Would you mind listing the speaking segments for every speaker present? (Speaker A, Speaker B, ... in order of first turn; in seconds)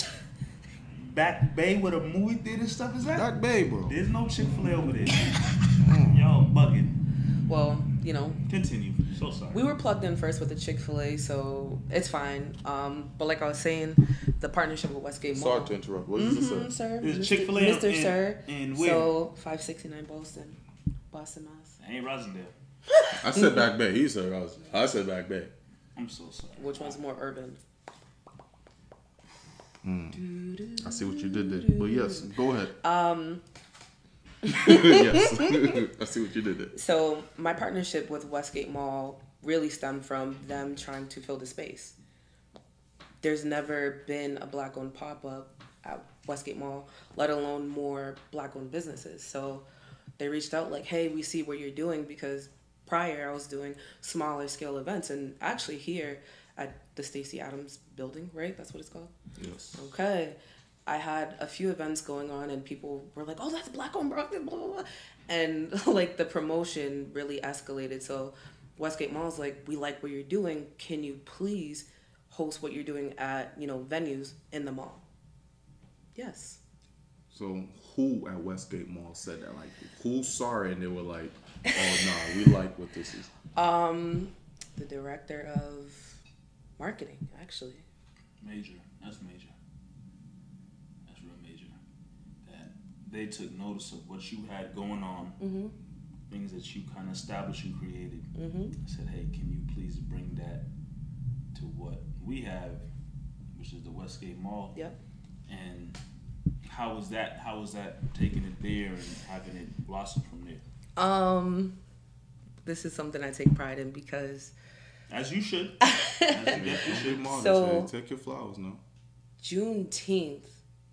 Speaker A: 0.9-3.3, 3.8-7.0, 8.5-9.6, 17.0-19.1, 21.8-22.5, 25.9-27.0, 88.4-89.5, 91.0-91.8, 92.4-95.4, 96.3-98.3, 98.8-100.6, 101.5-102.8, 103.5-104.8, 105.5-106.0, 106.6-110.6, 115.1-117.3
Speaker B: 3.1-4.0, 5.8-6.3, 15.3-16.7, 23.1-25.5, 29.8-30.2, 30.8-32.7, 34.5-36.7, 59.4-59.9, 77.3-83.3, 116.5-118.8
Speaker C: 7.5-8.4, 9.5-20.6, 21.1-21.8, 22.9-23.7, 26.6-27.6, 30.1-33.4, 34.4-35.8, 36.7-42.0, 43.2-49.6, 50.2-59.1, 59.7-75.0, 76.2-76.6, 81.7-82.3, 83.5-86.2, 86.8-87.8, 95.4-95.8, 98.3-98.8, 111.0-111.8, 112.6-114.5, 115.8-116.6, 117.1-117.9, 119.4-120.6